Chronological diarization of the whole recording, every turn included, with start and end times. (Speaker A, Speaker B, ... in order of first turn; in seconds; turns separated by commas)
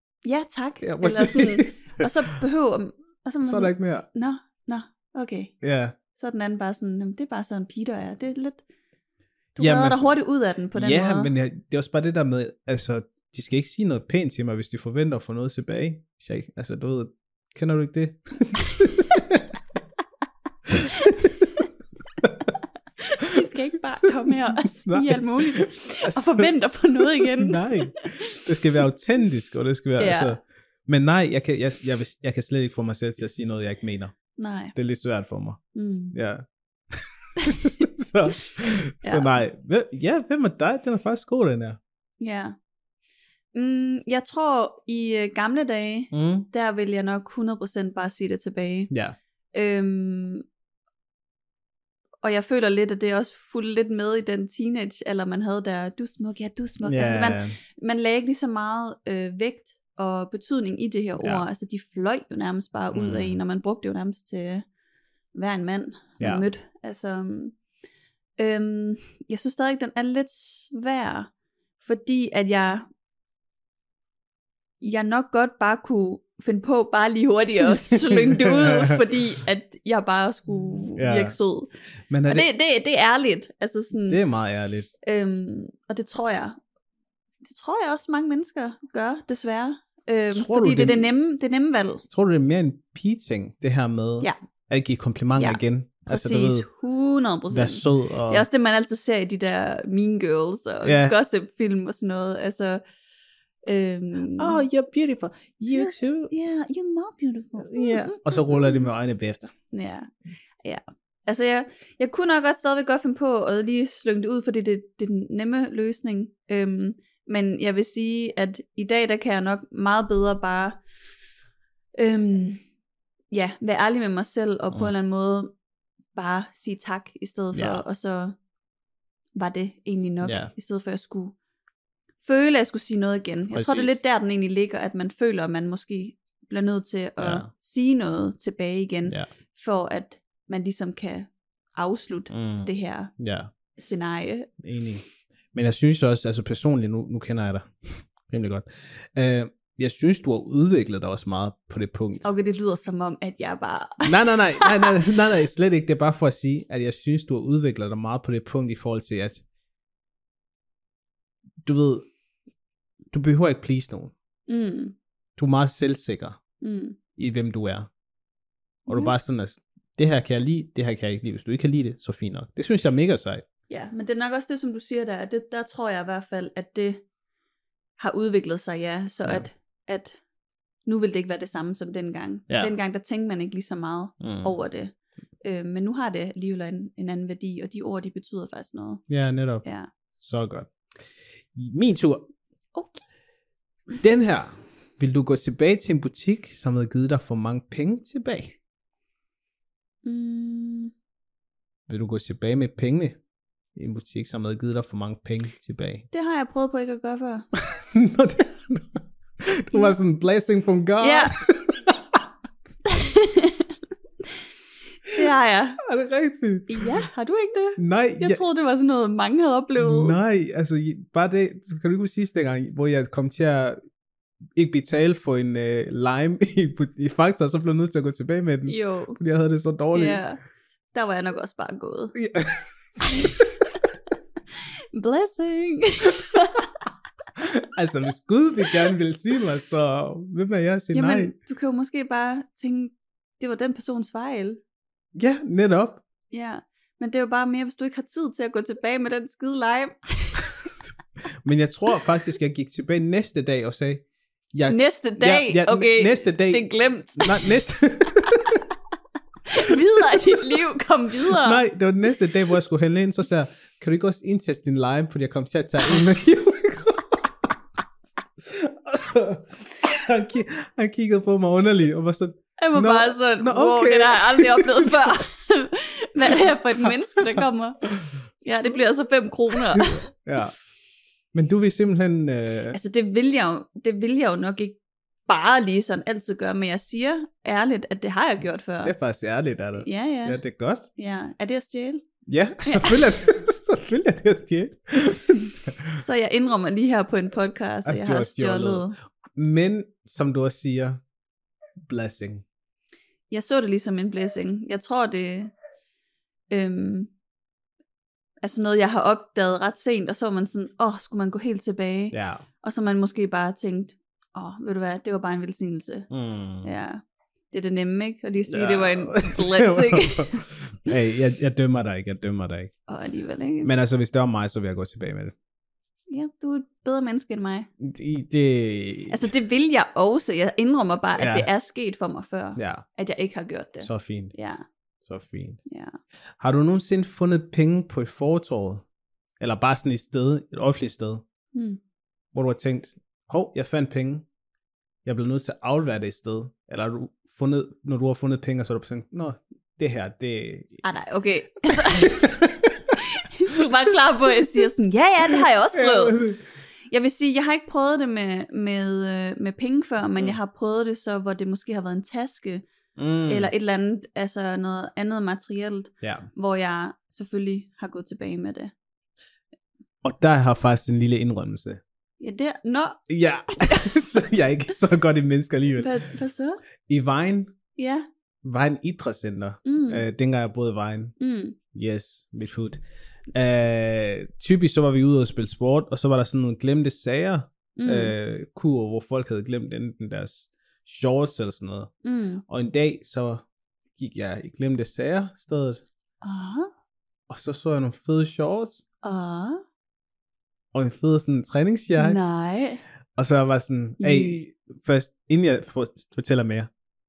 Speaker A: 0.2-5.5, Speaker B: 0.8-2.1, Speaker B: 3.4-4.0, Speaker B: 5.6-6.0, Speaker A: 6.1-8.6, Speaker B: 9.6-10.1, Speaker A: 9.6-11.3, Speaker B: 10.8-19.5, Speaker B: 20.7-21.4, Speaker A: 20.9-21.7, Speaker B: 22.2-22.5, Speaker A: 23.0-28.4, Speaker B: 24.3-34.1, Speaker A: 30.0-30.4, Speaker A: 34.4-34.8, Speaker B: 34.8-35.6, Speaker A: 35.8-36.1, Speaker B: 36.1-41.8, Speaker A: 39.0-39.4, Speaker A: 42.2-42.5, Speaker A: 43.5-48.9, Speaker B: 46.1-46.5, Speaker B: 48.9-49.2, Speaker A: 49.5-50.4, Speaker A: 52.2-64.6, Speaker B: 56.8-57.6, Speaker B: 61.2-61.4, Speaker B: 62.9-63.4, Speaker A: 65.3-67.5, Speaker B: 66.2-66.4, Speaker A: 68.4-71.3, Speaker A: 71.8-72.9, Speaker A: 74.8-81.7, Speaker B: 77.9-79.0, Speaker B: 81.0-81.3, Speaker B: 82.1-82.5, Speaker A: 82.3-84.2, Speaker B: 84.1-84.9, Speaker A: 85.0-86.6, Speaker A: 87.4-92.0, Speaker B: 90.3-91.1, Speaker B: 92.1-96.7, Speaker A: 95.4-102.8, Speaker B: 97.5-98.5, Speaker B: 100.8-101.2, Speaker A: 103.7-104.6, Speaker B: 104.4-106.3, Speaker A: 105.7-108.9, Speaker B: 107.6-109.5, Speaker A: 109.7-110.1, Speaker A: 110.6-120.8, Speaker A: 122.0-122.6, Speaker A: 123.3-125.5, Speaker A: 126.1-128.3, Speaker B: 127.5-127.8, Speaker A: 129.3-131.3, Speaker B: 130.2-130.5, Speaker A: 132.2-143.1, Speaker B: 133.5-134.0, Speaker B: 137.2-137.5, Speaker B: 142.3-143.5, Speaker A: 143.8-144.5, Speaker B: 144.6-152.3, Speaker A: 152.2-155.1, Speaker B: 154.0-159.4, Speaker B: 161.6-162.1, Speaker B: 163.1-164.1, Speaker A: 164.5-164.9, Speaker B: 165.4-166.4, Speaker A: 166.6-167.0, Speaker B: 167.2-167.9, Speaker B: 168.9-173.4, Speaker A: 168.9-169.1, Speaker A: 173.7-177.0, Speaker A: 178.0-180.2, Speaker A: 180.8-189.0, Speaker B: 184.2-184.5, Speaker B: 189.1-189.6, Speaker A: 189.6-189.9, Speaker B: 190.2-190.7, Speaker B: 191.5-192.3, Speaker A: 192.8-193.0, Speaker B: 194.0-198.6, Speaker A: 200.0-200.9, Speaker B: 201.9-203.2, Speaker B: 203.8-206.0, Speaker A: 206.1-207.5, Speaker B: 207.6-212.2, Speaker A: 211.0-211.3, Speaker A: 212.8-213.7, Speaker A: 215.1-215.8, Speaker B: 215.8-216.9, Speaker A: 216.7-220.2, Speaker B: 217.8-218.4, Speaker B: 219.8-223.8, Speaker B: 224.6-230.2, Speaker A: 228.7-229.2, Speaker A: 229.9-230.4, Speaker A: 230.9-232.2, Speaker B: 232.2-233.5, Speaker A: 234.9-236.7, Speaker B: 237.4-241.3, Speaker A: 240.9-244.6, Speaker B: 245.1-246.0, Speaker A: 246.3-250.5, Speaker B: 251.4-256.7, Speaker A: 254.7-257.5, Speaker B: 257.2-258.6, Speaker A: 259.5-261.6, Speaker B: 259.6-260.3, Speaker B: 261.2-267.5, Speaker B: 268.4-275.1, Speaker A: 272.6-277.8, Speaker B: 276.8-277.4, Speaker A: 278.4-280.0, Speaker B: 279.8-280.5, Speaker B: 281.3-282.8, Speaker A: 282.7-288.9, Speaker B: 288.8-290.9, Speaker A: 289.8-290.4, Speaker A: 291.0-292.0, Speaker B: 292.3-296.0, Speaker A: 292.6-293.2, Speaker A: 296.0-298.9, Speaker B: 297.8-301.0, Speaker B: 301.8-302.4, Speaker A: 303.3-305.5, Speaker A: 306.5-307.1, Speaker A: 308.4-316.1, Speaker B: 312.1-312.4, Speaker B: 316.1-316.7, Speaker A: 316.6-320.4, Speaker B: 318.5-322.7, Speaker A: 322.9-323.7, Speaker B: 323.6-325.3, Speaker A: 326.1-327.7, Speaker B: 327.8-329.3, Speaker A: 329.1-334.6, Speaker B: 331.2-331.5, Speaker B: 332.6-332.8, Speaker B: 333.8-334.3, Speaker B: 335.0-335.6, Speaker A: 335.7-336.0, Speaker B: 336.4-338.8, Speaker B: 339.4-341.2, Speaker A: 341.5-341.8, Speaker B: 342.3-344.2, Speaker B: 345.0-350.8, Speaker A: 350.8-352.4, Speaker B: 351.7-353.0, Speaker A: 352.9-356.2, Speaker B: 355.3-356.4, Speaker A: 356.9-362.6, Speaker B: 362.9-363.5, Speaker A: 363.3-368.7, Speaker B: 366.0-366.3, Speaker B: 370.0-371.8, Speaker A: 372.2-373.0, Speaker B: 373.1-376.0, Speaker A: 373.6-374.0, Speaker A: 375.8-376.6, Speaker B: 376.9-377.5, Speaker A: 377.8-378.1, Speaker B: 378.4-381.1, Speaker A: 379.6-380.0, Speaker A: 381.2-381.6, Speaker B: 381.7-382.8, Speaker B: 383.3-391.9, Speaker A: 387.8-388.1, Speaker A: 392.0-392.4, Speaker B: 392.5-393.4, Speaker B: 394.0-395.8, Speaker A: 396.2-396.7, Speaker B: 397.3-398.9, Speaker A: 399.0-399.6, Speaker B: 400.7-402.2, Speaker A: 401.9-402.8, Speaker B: 403.2-406.7, Speaker A: 404.0-404.4